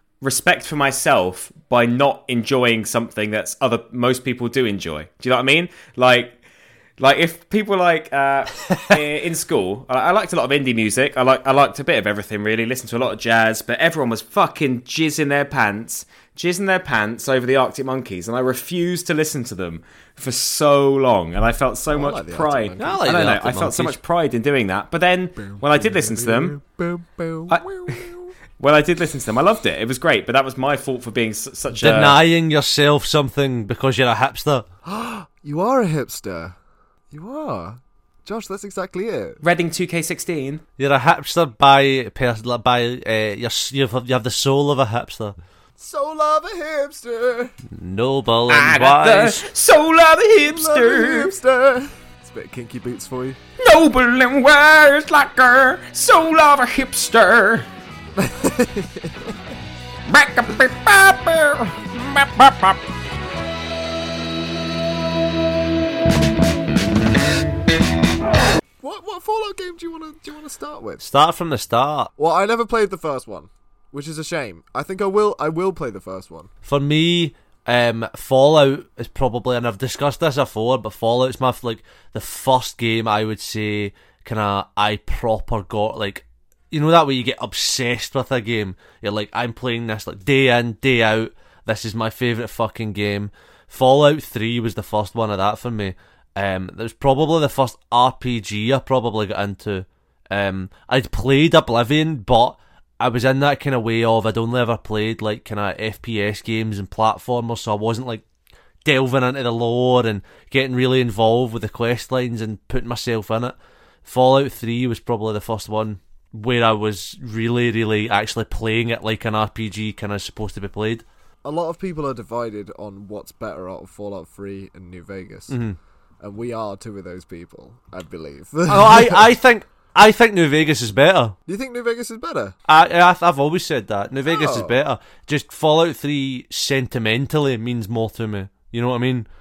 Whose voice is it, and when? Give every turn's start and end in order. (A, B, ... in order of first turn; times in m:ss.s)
0:00.2-0:06.4 A
0:07.0-0:26.6 A
0:08.6-0:08.9 B
0:21.9-0:23.2 C
0:22.8-0:24.0 B
0:25.4-0:28.3 C
0:27.5-0:32.2 A
0:31.7-0:34.6 B
0:34.8-0:36.5 C
0:37.1-0:39.4 C
0:39.4-0:40.6 A
0:40.8-0:45.4 B
0:45.8-0:47.5 C
0:47.7-0:49.4 B
0:48.5-0:51.4 A
0:50.4-0:53.4 C
0:53.6-0:57.7 A
0:58.2-0:59.4 C
1:00.1-1:02.8 A
1:08.8-1:11.0 C
1:11.0-1:12.1 B
1:12.2-1:16.5 C
1:16.6-1:48.2 B
1:48.8-2:01.0 B
2:01.4-2:05.5 C
2:05.5-2:05.8 B
2:06.2-2:09.3 C
2:08.7-2:11.3 B
2:11.5-2:12.6 C
2:12.7-2:19.3 B
2:14.3-2:14.8 C